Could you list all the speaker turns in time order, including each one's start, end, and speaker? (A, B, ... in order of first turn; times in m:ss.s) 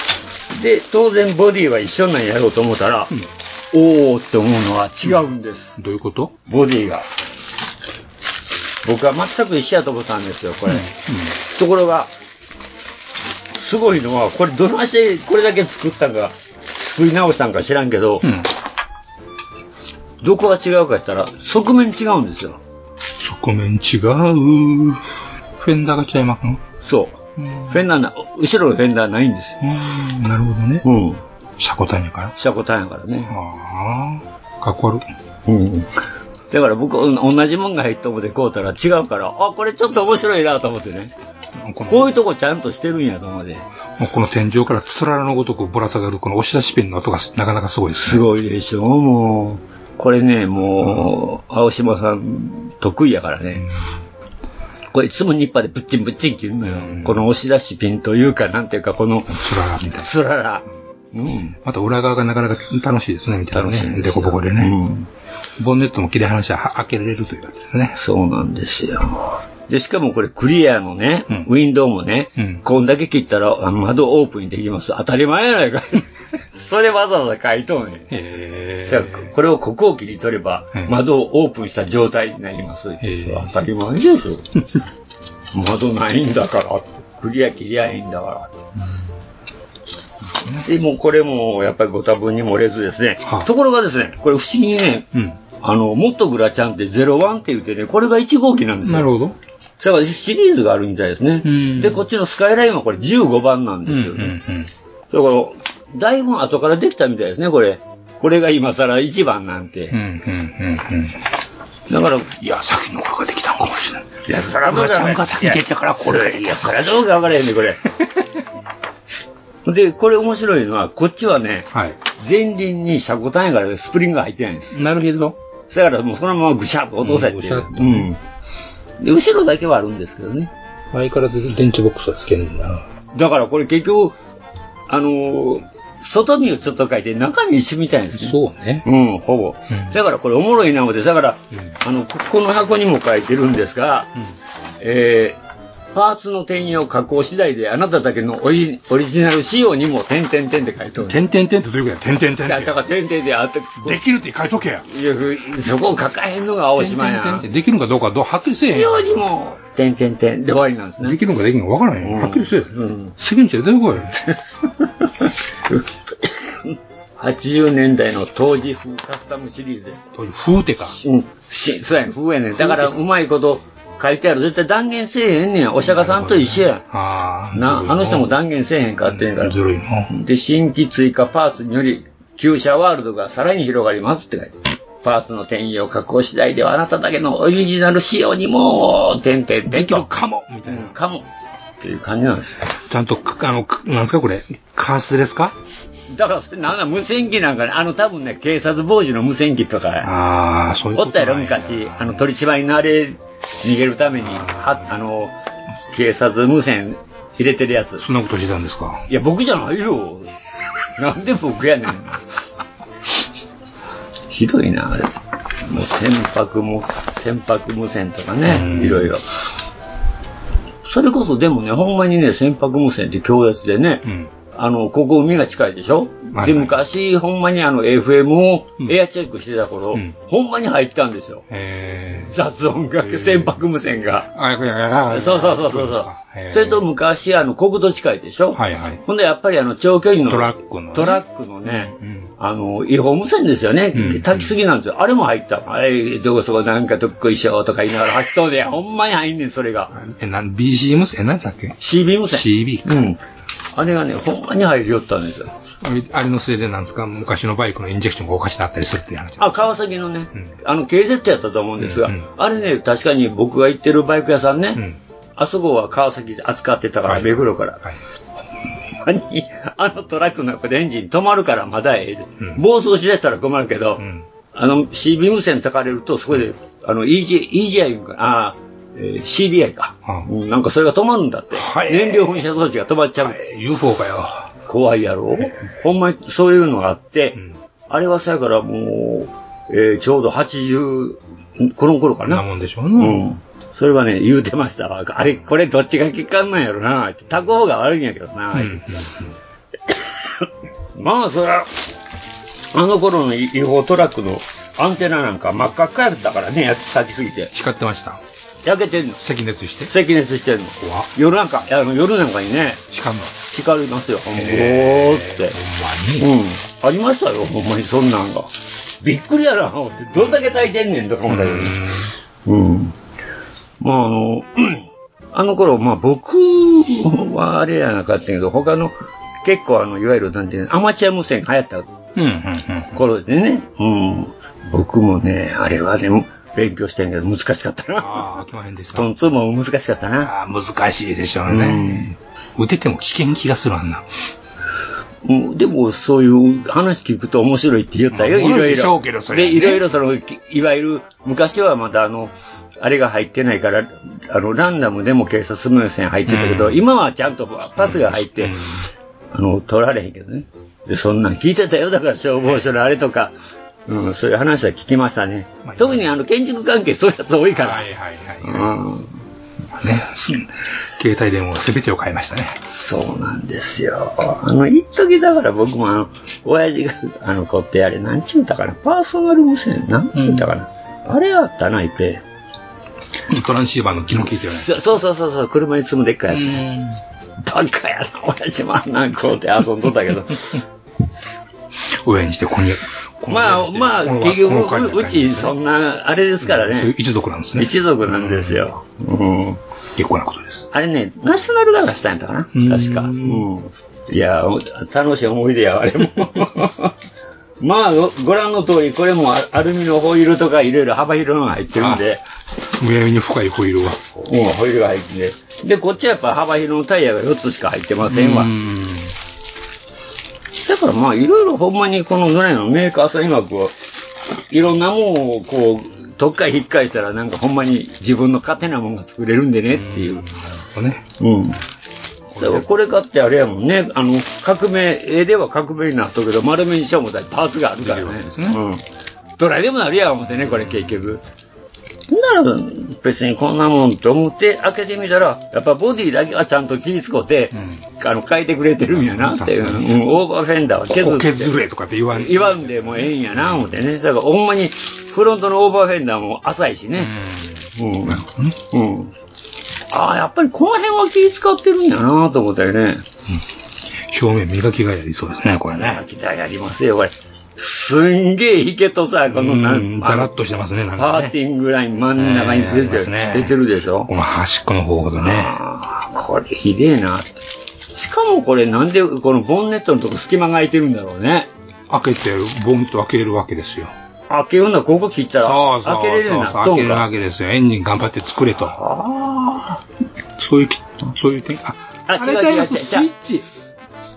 0:00.5-0:03.1 A
0:03.7-0:05.8 A
0:05.8-0:06.4 B
0:06.5-0:07.1 A
0:08.8-0:10.9 A
0:10.7-0:11.4 B
0:11.5-0:12.1 A
0:13.6-0:18.3 A
0:18.2-0:18.5 B
0:20.2-0:22.6 A
0:23.2-0:25.1 B
0:25.6-0:26.6 B
0:26.8-0:29.6 A
0:27.4-0:27.8 B
0:29.6-0:30.8 B
0:30.8-0:31.2 A
0:31.6-0:32.4 B
0:32.4-0:33.4 A
0:33.3-0:35.0 B
0:35.5-0:35.9 A
0:36.5-0:41.1 A
0:41.6-0:42.2 B
0:41.9-0:43.7 A
0:44.0-0:48.2 B
0:48.0-0:53.7 A
0:50.8-0:51.1 B
0:54.9-0:59.4 A
0:56.7-0:57.3 B
0:59.3-1:00.1 B
1:00.0-1:01.6 A
1:01.6-1:04.8 B
1:03.5-1:05.1 A
1:05.6-1:08.0 B
1:08.0-1:18.1 A
1:12.4-1:12.6 B
1:18.1-1:19.3 B
1:18.9-1:24.5 A
1:23.0-1:23.5 B
1:25.5-1:28.5 A
1:30.4-1:30.7 B
1:30.6-1:39.1 A
1:33.2-1:33.5 B
1:35.1-1:35.4 B
1:38.8-1:39.4 B
1:39.8-1:44.4 A
1:41.4-1:42.0 B
1:43.9-1:44.7 B
1:45.1-1:50.0 A
1:49.9-1:51.2 B
1:51.9-1:52.3 A
1:52.4-1:57.0 B
1:54.2-1:57.8 A
1:58.0-1:58.4 B
1:59.6-2:04.8 A
2:01.7-2:02.0 B
2:04.7-2:05.4 B
2:05.7-2:08.2 A
2:07.0-2:08.1 B
2:09.0-2:10.5 A
2:10.9-2:12.9 B
2:13.1-2:14.2 A
2:14.9-2:24.1 A
2:18.1-2:18.8 B
2:19.7-2:20.0 B
2:24.8-2:25.4 A
2:25.9-2:31.2 A
2:31.0-2:32.8 B
2:32.4-2:34.0 A
2:33.8-2:34.9 B
2:34.9-2:37.5 A
2:36.8-2:39.1 B
2:38.6-2:41.2 A
2:41.0-2:44.2 B
2:42.0-2:43.1 A
2:44.1-2:50.1 A
2:50.1-2:51.0 B
2:50.9-2:56.9 A
2:52.6-2:52.9 B
2:55.8-2:58.4 B
2:57.5-2:59.6 A
2:59.0-3:00.1 B
3:00.1-3:10.1 A
3:09.7-3:11.0 B
3:10.7-3:11.3 A
3:11.8-3:12.6 A
3:12.9-3:15.6 B
3:16.1-3:20.1 A
3:20.0-3:22.2 B
3:21.0-3:25.3 A
3:24.2-3:24.9 B
3:25.9-3:28.0 A
3:28.0-3:29.1 B
3:29.1-3:30.3 A
3:31.0-3:32.2 A
3:34.3-3:39.2 A
3:38.4-3:39.1 B
3:40.8-3:51.4 A
3:44.0-3:44.3 B
3:46.3-3:46.7 B
3:51.5-3:52.3 B
3:52.2-3:54.3 A
3:53.0-3:53.6 B
3:54.3-3:56.8 B
3:55.1-4:09.9 A
3:58.5-3:59.0 B
4:00.3-4:02.3 B
4:03.9-4:04.6 B
4:09.9-4:11.8 B
4:11.8-4:13.2 A
4:12.3-4:13.1 B
4:13.8-4:15.5 A
4:15.8-4:19.7 B
4:19.4-4:24.8 A
4:21.8-4:22.3 B
4:25.4-4:27.8 A
4:27.1-4:28.0 B
4:29.0-4:43.4 A
4:34.0-4:34.2 B
4:41.6-4:42.4 B
4:43.2-4:44.5 B
4:44.7-4:52.4 A
4:52.2-4:53.2 B
4:53.0-4:58.9 A
4:58.5-4:59.3 B
4:59.9-5:01.7 A
5:02.7-5:07.5 A
5:07.5-5:08.2 B
5:08.6-5:09.2 A
5:09.2-5:09.9 B
5:09.9-5:12.8 A
5:10.8-5:11.1 B
5:12.9-5:13.4 B
5:13.5-5:15.6 A
5:14.3-5:16.3 B
5:16.2-5:21.8 A
5:21.3-5:22.1 B
5:22.4-5:23.0 A
5:23.8-5:31.9 A
5:32.2-5:33.0 B
5:32.9-5:38.3 A
5:38.0-5:39.1 B
5:38.9-5:40.3 A
5:40.2-5:44.1 B
5:41.5-5:42.1 A
5:45.2-5:58.6 A
5:48.1-5:49.8 B
5:56.3-5:56.8 B
5:57.8-5:58.9 B
5:59.3-6:03.3 A
6:02.4-6:02.6 B
6:03.9-6:07.9 A
6:05.6-6:06.1 B
6:07.6-6:08.8 B
6:08.4-6:09.2 A
6:09.7-6:12.6 B
6:12.7-6:22.2 A
6:20.1-6:20.5 B
6:23.3-6:24.7 B
6:24.4-6:26.7 A
6:26.3-6:27.0 B
6:27.4-6:30.6 A
6:31.8-6:35.6 B
6:33.3-6:36.9 A
6:36.4-6:38.6 B
6:37.6-6:39.6 A
6:40.0-6:40.7 B
6:40.7-6:46.9 A
6:42.5-6:43.5 B
6:47.6-6:52.2 A
6:51.8-6:52.0 B
6:52.7-6:54.0 B
6:54.1-6:58.5 A
6:58.0-6:59.2 B
7:00.6-7:03.7 A
7:04.5-7:10.2 A
7:09.7-7:11.1 B
7:11.2-7:11.6 A
7:12.3-7:12.7 B
7:12.4-7:18.8 A
7:17.8-7:18.6 B
7:19.4-7:21.2 A
7:20.4-7:21.2 B
7:22.1-7:31.5 A
7:27.5-7:27.8 B
7:28.9-7:30.2 B
7:30.9-7:33.7 B
7:32.1-7:37.1 A
7:37.0-7:38.6 B
7:37.8-7:39.1 A
7:39.9-7:43.1 A
7:44.0-7:46.0 B
7:45.7-7:50.3 A
7:49.3-7:51.4 B
7:51.0-7:54.1 A
7:52.2-7:55.6 B
7:55.2-7:57.4 A
7:57.9-8:01.5 A
8:01.9-8:03.9 B
8:04.3-8:07.1 A
8:05.4-8:08.8 B
8:08.6-8:09.8 A
8:10.4-8:13.7 B
8:12.1-8:13.1 A